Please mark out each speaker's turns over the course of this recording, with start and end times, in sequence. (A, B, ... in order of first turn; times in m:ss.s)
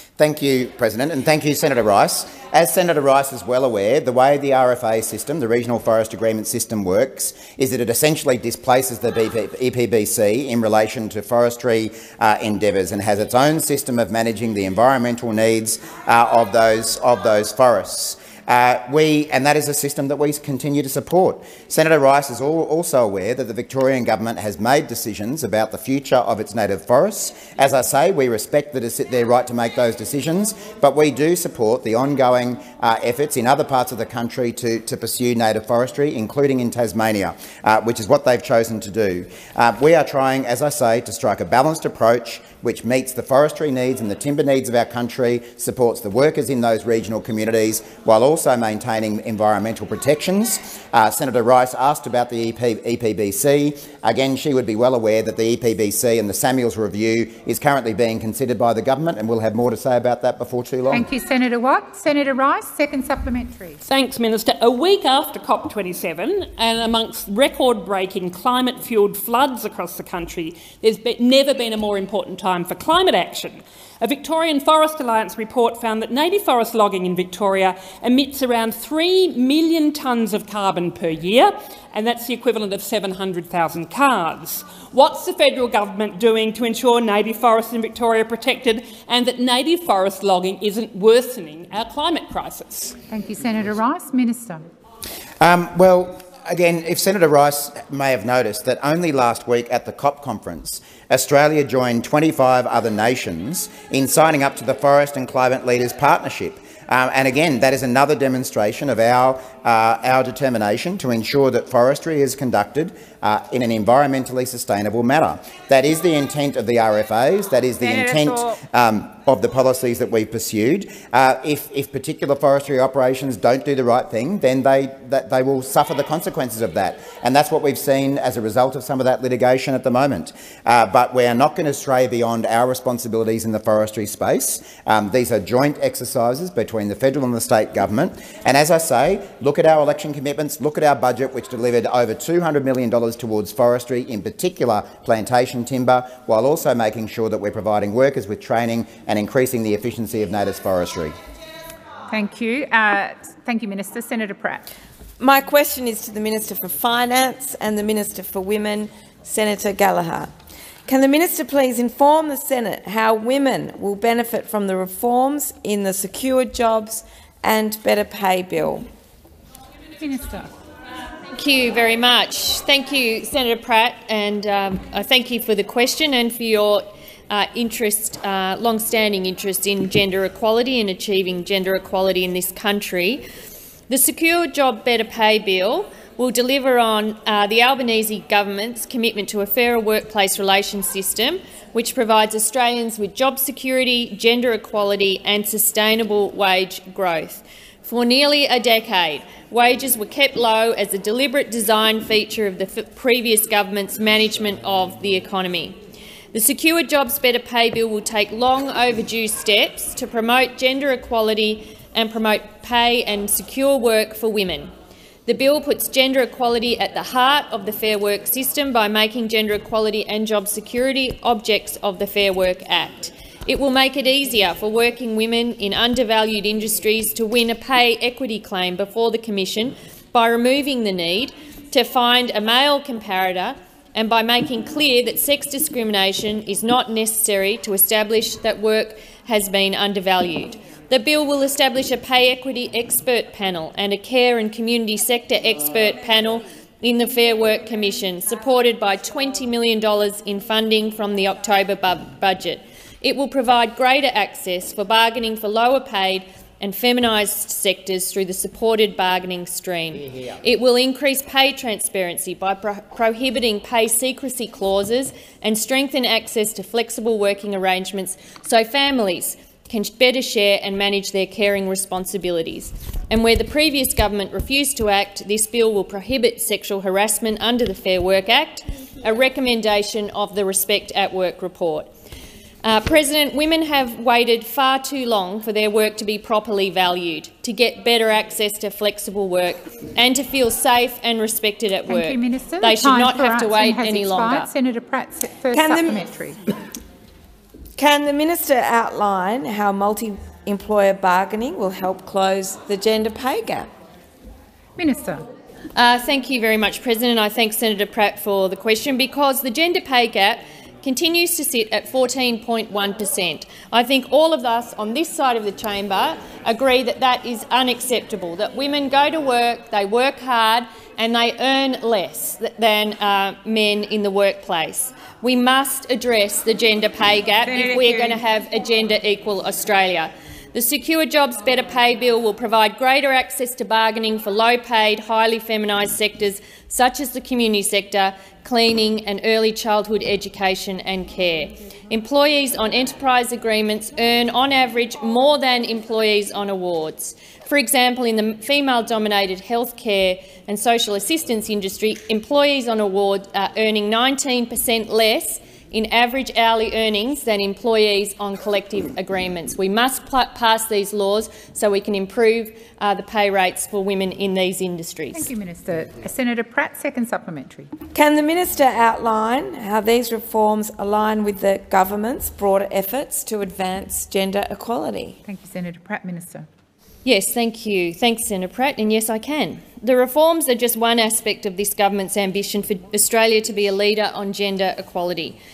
0:00.2-1:01.0 A
1:00.9-1:03.8 B
1:03.8-1:33.0 C
1:33.1-1:34.6 B
1:35.4-2:31.1 A
1:57.8-1:58.6 B
2:32.1-2:34.6 B
2:35.2-2:40.3 D
2:40.8-2:48.9 D
2:50.0-2:50.5 B
2:51.3-3:03.2 E
3:03.9-3:25.8 E
3:26.3-3:34.7 E
3:35.2-4:41.9 E
4:42.6-4:54.5 E
4:51.9-4:56.4 B
4:55.5-4:56.0 D
4:57.8-5:03.7 D
5:04.8-5:05.2 B
5:05.7-6:05.3 E
5:27.4-5:28.2 B
6:05.1-6:07.7 B
6:07.9-6:15.2 D
6:15.2-6:16.4 B
6:17.0-6:25.4 E